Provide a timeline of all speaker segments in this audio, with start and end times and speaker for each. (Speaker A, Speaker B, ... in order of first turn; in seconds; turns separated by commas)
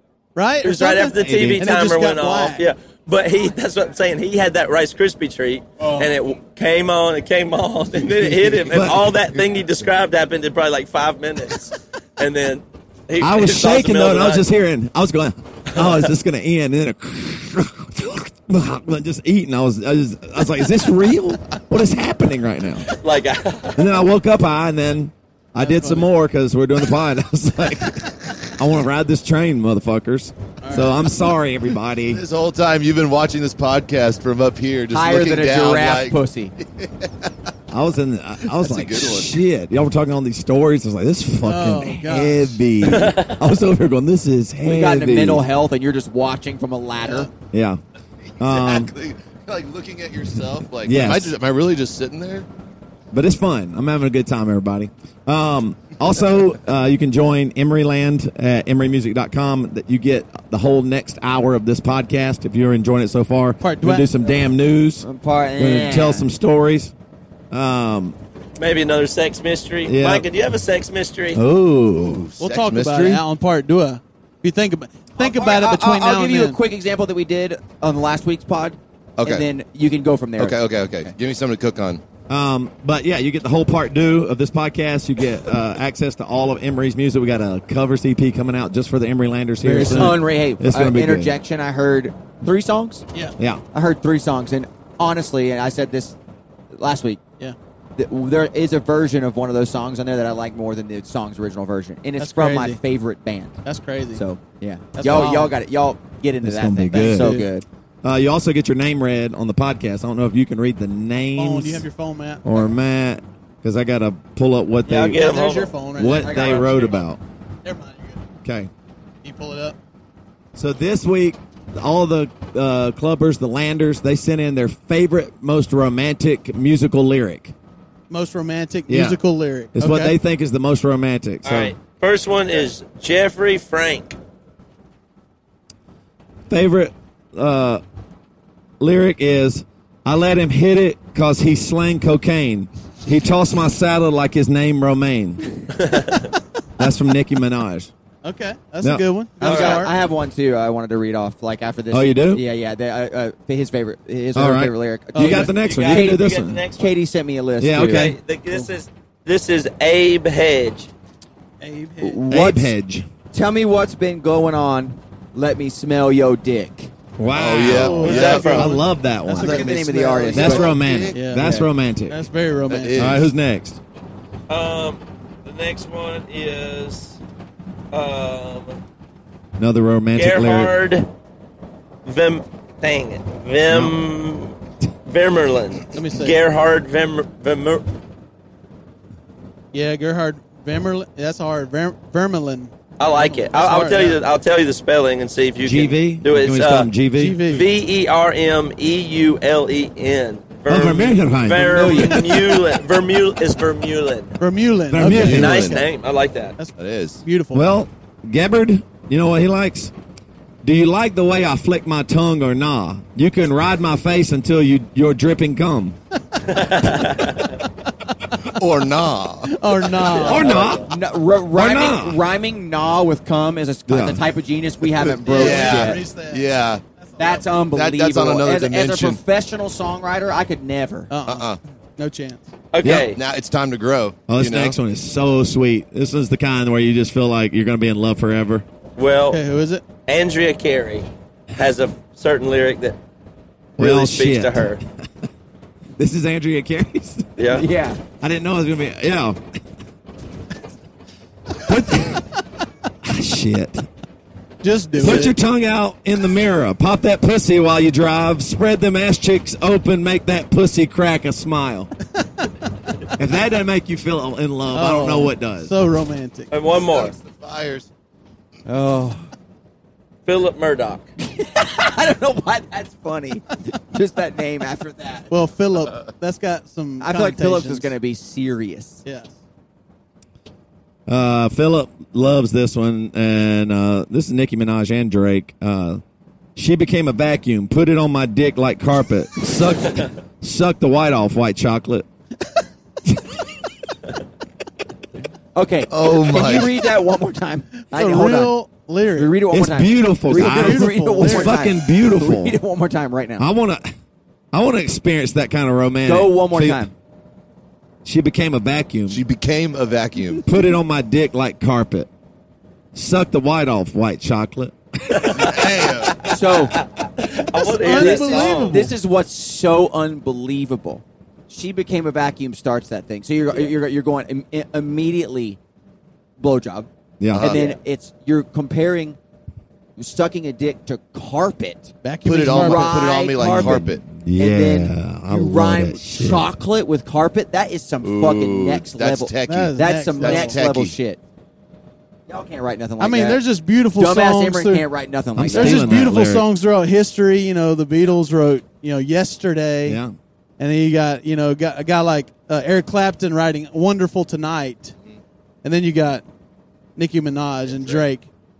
Speaker A: 0.3-2.7, Speaker B: 0.6-14.4, Speaker C: 1.2-1.7, Speaker C: 8.7-9.1, Speaker C: 13.2-22.9, Speaker B: 15.8-16.0, Speaker B: 22.8-24.0, Speaker C: 23.8-32.2, Speaker A: 25.6-26.1, Speaker A: 30.6-31.0, Speaker D: 32.1-37.1, Speaker E: 34.9-36.5, Speaker C: 37.7-45.4, Speaker D: 38.5-39.3, Speaker A: 41.4-42.6, Speaker B: 42.8-43.5, Speaker E: 44.6-47.3, Speaker C: 47.5-47.8, Speaker C: 48.4-48.9, Speaker D: 48.4-52.5, Speaker C: 50.8-51.3, Speaker C: 53.1-65.0, Speaker A: 63.6-64.1, Speaker E: 65.0-66.3, Speaker C: 65.6-66.9, Speaker C: 67.5-68.2, Speaker B: 68.6-71.4, Speaker C: 69.8-70.2, Speaker C: 71.3-72.2, Speaker D: 72.0-73.2, Speaker A: 72.4-76.6, Speaker E: 75.2-81.1, Speaker D: 79.2-79.5, Speaker D: 80.4-82.0, Speaker C: 82.3-91.3, Speaker E: 89.6-93.0, Speaker A: 89.8-90.2, Speaker E: 93.7-96.2, Speaker E: 96.7-97.2, Speaker E: 98.0-103.5, Speaker A: 102.2-102.8, Speaker A: 103.6-104.2, Speaker E: 104.1-107.6, Speaker A: 105.0-105.5, Speaker C: 106.4-107.5, Speaker A: 106.9-107.5, Speaker C: 108.0-111.9, Speaker A: 111.3-112.4, Speaker C: 112.4-115.2, Speaker B: 114.9-115.8, Speaker A: 114.9-117.0, Speaker C: 115.9-117.2, Speaker E: 116.0-117.0, Speaker A: 117.6-118.2, Speaker C: 118.4-118.7, Speaker A: 119.2-119.8, Speaker C: 120.5-127.5, Speaker A: 128.1-130.1, Speaker C: 128.9-129.2, Speaker C: 129.7-131.7, Speaker B: 131.4-134.2, Speaker C: 136.5-137.8, Speaker C: 138.8-145.7, Speaker B: 145.7-146.3, Speaker C: 146.8-147.9, Speaker A: 148.2-149.9, Speaker B: 149.4-149.9, Speaker E: 149.4-156.2, Speaker C: 151.9-152.4, Speaker C: 154.3-156.6, Speaker A: 155.2-155.5, Speaker B: 155.4-156.9, Speaker E: 156.8-158.1, Speaker C: 157.6-158.2, Speaker B: 157.8-160.9, Speaker A: 161.6-162.2, Speaker E: 162.0-162.7, Speaker C: 162.3-163.1, Speaker E: 163.3-166.9, Speaker C: 167.2-169.8, Speaker D: 167.3-168.7, Speaker A: 167.7-173.2, Speaker B: 168.0-168.7, Speaker E: 169.3-170.8, Speaker D: 170.2-171.2, Speaker C: 170.3-172.2, Speaker E: 171.3-171.7, Speaker D: 172.7-173.3, Speaker C: 172.9-173.8, Speaker B: 174.5-177.2, Speaker B: 177.9-178.8, Speaker C: 179.6-180.7, Speaker B: 180.1-181.1, Speaker B: 182.0-184.6, Speaker C: 183.7-183.9, Speaker B: 185.1-187.9, Speaker A: 185.9-186.3, Speaker A: 189.7-194.2, Speaker B: 193.0-196.9, Speaker C: 195.6-197.4, Speaker A: 197.1-197.7, Speaker B: 197.4-204.4, Speaker C: 200.7-202.2, Speaker E: 201.6-202.4, Speaker A: 204.4-205.9, Speaker C: 204.9-205.7, Speaker B: 205.1-206.5, Speaker D: 205.1-205.8, Speaker A: 206.6-207.7, Speaker D: 206.8-207.2, Speaker C: 207.5-209.9, Speaker C: 210.6-216.0, Speaker B: 216.4-217.6, Speaker D: 218.5-220.7, Speaker A: 219.4-220.5, Speaker B: 220.0-220.9, Speaker C: 220.2-220.9, Speaker E: 220.8-226.0, Speaker C: 221.5-222.2, Speaker C: 223.9-224.2, Speaker A: 225.2-226.5, Speaker D: 225.2-226.8, Speaker A: 227.0-227.5, Speaker E: 227.2-231.1, Speaker D: 227.7-229.2, Speaker A: 231.1-232.4, Speaker D: 231.2-231.6, Speaker B: 232.7-233.2, Speaker C: 232.8-233.1, Speaker D: 232.9-234.8, Speaker C: 234.3-238.6, Speaker B: 239.0-239.4, Speaker A: 239.3-239.8, Speaker B: 240.1-243.0, Speaker C: 243.8-244.7, Speaker B: 243.8-244.8, Speaker C: 246.0-247.4, Speaker B: 247.4-247.7, Speaker E: 247.5-248.0, Speaker C: 248.2-249.4, Speaker C: 251.6-252.3, Speaker C: 253.0-253.8, Speaker A: 254.6-255.4, Speaker C: 255.0-261.9, Speaker C: 263.2-265.7, Speaker A: 264.7-266.5, Speaker B: 266.5-267.1, Speaker D: 266.6-267.9, Speaker E: 268.6-269.3, Speaker B: 270.2-271.0, Speaker E: 271.2-275.3, Speaker A: 275.3-277.9, Speaker E: 277.0-279.0, Speaker A: 279.0-279.4, Speaker C: 281.1-286.0, Speaker C: 286.6-292.1, Speaker E: 295.5-298.5, Speaker D: 295.9-296.7, Speaker A: 297.9-299.4, Speaker E: 299.1-303.4, Speaker C: 299.5-302.6, Speaker A: 300.3-301.6, Speaker C: 303.4-303.9, Speaker C: 304.5-306.9, Speaker E: 306.0-306.9, Speaker C: 308.0-309.2, Speaker D: 309.1-310.4, Speaker C: 310.4-312.1, Speaker C: 312.9-315.7, Speaker B: 315.1-315.6, Speaker D: 315.4-316.2, Speaker E: 316.2-316.8, Speaker B: 316.3-318.8, Speaker A: 317.6-318.9, Speaker E: 318.0-325.6, Speaker E: 326.4-329.2, Speaker C: 327.2-327.6, Speaker D: 327.3-327.7, Speaker E: 330.0-331.9, Speaker A: 332.0-333.2, Speaker D: 332.2-334.0, Speaker E: 332.4-341.2, Speaker C: 333.4-336.5, Speaker D: 338.0-340.9, Speaker A: 339.4-340.6, Speaker E: 342.3-343.4, Speaker A: 343.0-344.9, Speaker E: 343.9-346.0, Speaker C: 345.4-346.5, Speaker A: 345.5-350.0, Speaker C: 349.8-350.1, Speaker A: 350.6-354.9, Speaker A: 355.6-356.2, Speaker A: 356.9-358.3